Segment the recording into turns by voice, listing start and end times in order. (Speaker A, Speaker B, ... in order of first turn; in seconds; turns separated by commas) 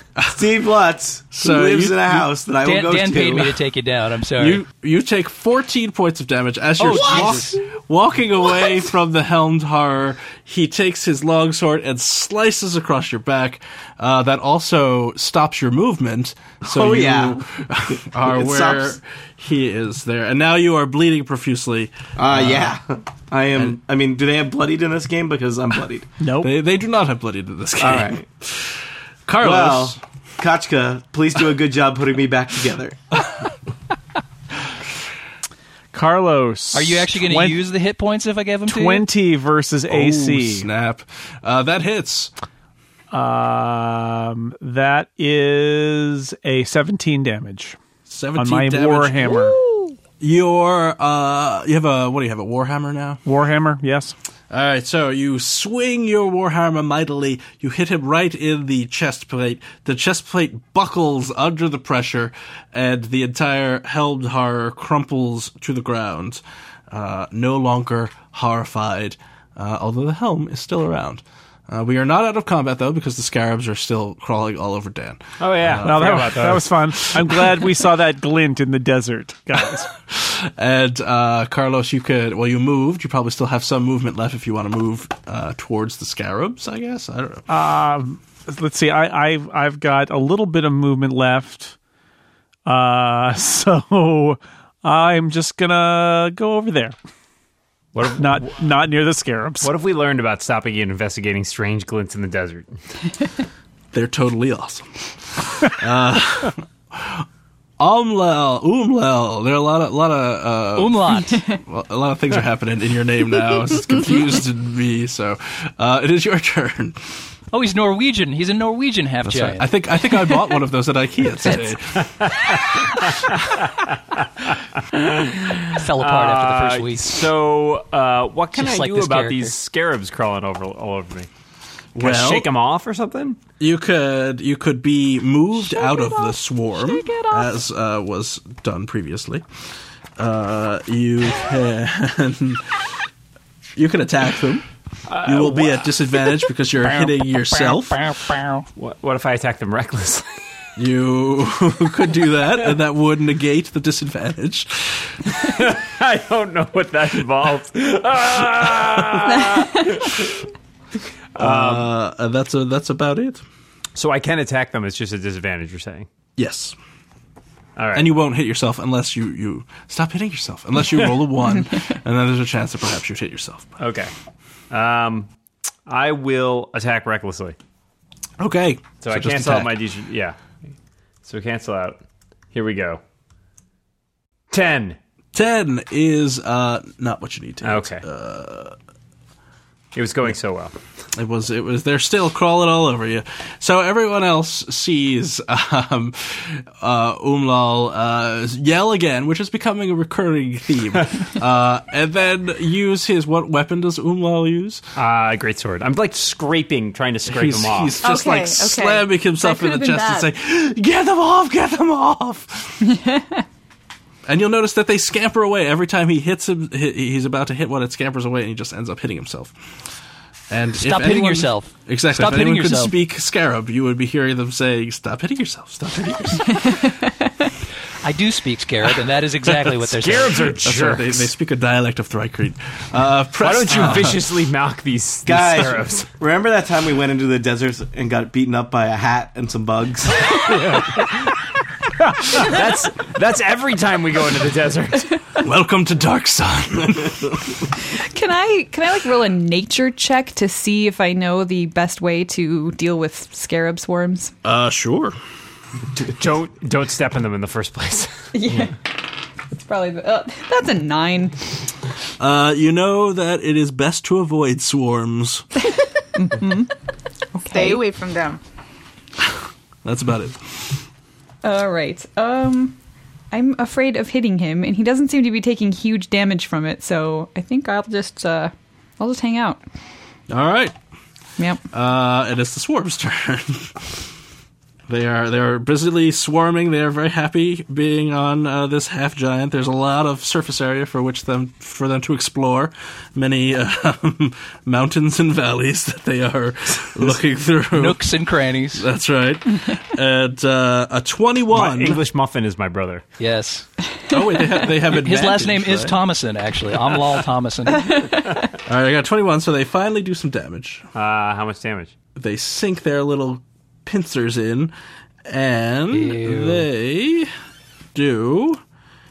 Speaker A: 0.3-3.6, Speaker B: 1.4-2.3, Speaker C: 2.6-4.6, Speaker B: 4.4-22.8, Speaker C: 6.8-7.5, Speaker A: 6.9-7.3, Speaker A: 16.6-17.4, Speaker A: 18.2-18.9, Speaker A: 22.1-26.1, Speaker D: 26.2-26.5, Speaker B: 26.4-30.0, Speaker A: 27.8-28.2, Speaker A: 29.4-33.0, Speaker D: 35.9-37.6, Speaker C: 36.7-39.1, Speaker D: 38.7-40.7, Speaker B: 39.9-42.3, Speaker D: 43.1-47.8, Speaker B: 48.0-49.4, Speaker D: 48.4-49.6, Speaker B: 50.2-53.2, Speaker D: 53.2-54.1, Speaker B: 54.5-76.6, Speaker E: 75.4-76.9, Speaker D: 75.8-79.9, Speaker B: 80.0-87.5, Speaker D: 87.5-91.7, Speaker D: 92.7-97.0, Speaker E: 97.9-98.6, Speaker D: 98.2-99.7, Speaker E: 99.6-102.8, Speaker B: 103.9-107.2, Speaker B: 107.8-117.2, Speaker C: 110.8-111.5, Speaker C: 117.5-119.7, Speaker B: 119.2-122.1, Speaker E: 122.2-131.3, Speaker C: 125.7-127.2, Speaker C: 128.5-129.5, Speaker B: 131.9-132.5, Speaker E: 132.0-133.4, Speaker B: 133.6-139.4, Speaker F: 135.7-137.4, Speaker B: 140.2-142.8, Speaker B: 143.8-144.7, Speaker E: 145.1-146.1, Speaker B: 145.2-148.0, Speaker E: 148.8-150.4, Speaker B: 150.8-155.2, Speaker E: 155.3-160.4, Speaker E: 161.3-161.9, Speaker B: 161.4-163.4, Speaker E: 163.9-166.1, Speaker B: 166.4-166.8, Speaker E: 167.8-168.1, Speaker B: 167.9-173.7, Speaker E: 173.8-174.1, Speaker E: 174.7-175.3, Speaker E: 175.9-177.6, Speaker B: 178.4-179.8, Speaker E: 179.0-180.4, Speaker E: 181.2-182.0, Speaker E: 182.5-183.0, Speaker E: 184.5-185.0, Speaker B: 185.3-188.7, Speaker E: 187.6-188.0, Speaker E: 189.9-190.7, Speaker B: 191.1-204.8, Speaker E: 204.9-208.0, Speaker B: 207.2-212.8, Speaker G: 208.0-210.3, Speaker F: 212.8-213.4, Speaker B: 214.2-219.5, Speaker B: 220.5-226.7, Speaker C: 220.8-222.9, Speaker F: 226.6-227.3, Speaker C: 228.0-230.6, Speaker E: 229.8-231.3, Speaker B: 230.6-234.2, Speaker E: 233.4-236.1, Speaker A: 235.2-240.3, Speaker E: 240.3-241.2, Speaker E: 242.1-245.2, Speaker B: 245.4-247.6, Speaker F: 247.9-254.3, Speaker B: 254.4-255.2, Speaker E: 255.9-258.7, Speaker F: 258.3-258.8, Speaker F: 259.5-261.5, Speaker B: 262.2-265.4, Speaker F: 266.2-266.7, Speaker F: 267.3-267.8, Speaker G: 267.5-268.4, Speaker B: 269.8-270.8, Speaker F: 271.4-272.8, Speaker F: 273.3-279.6, Speaker B: 280.3-280.7, Speaker B: 281.7-283.9, Speaker B: 284.9-298.0, Speaker C: 297.7-298.8, Speaker B: 298.7-302.0, Speaker E: 301.5-303.0, Speaker C: 303.2-303.6, Speaker B: 304.1-306.0, Speaker C: 304.9-308.1, Speaker B: 308.6-310.9, Speaker E: 310.9-311.9, Speaker B: 312.1-314.7, Speaker B: 315.2-317.3, Speaker C: 315.9-316.7, Speaker B: 317.9-318.6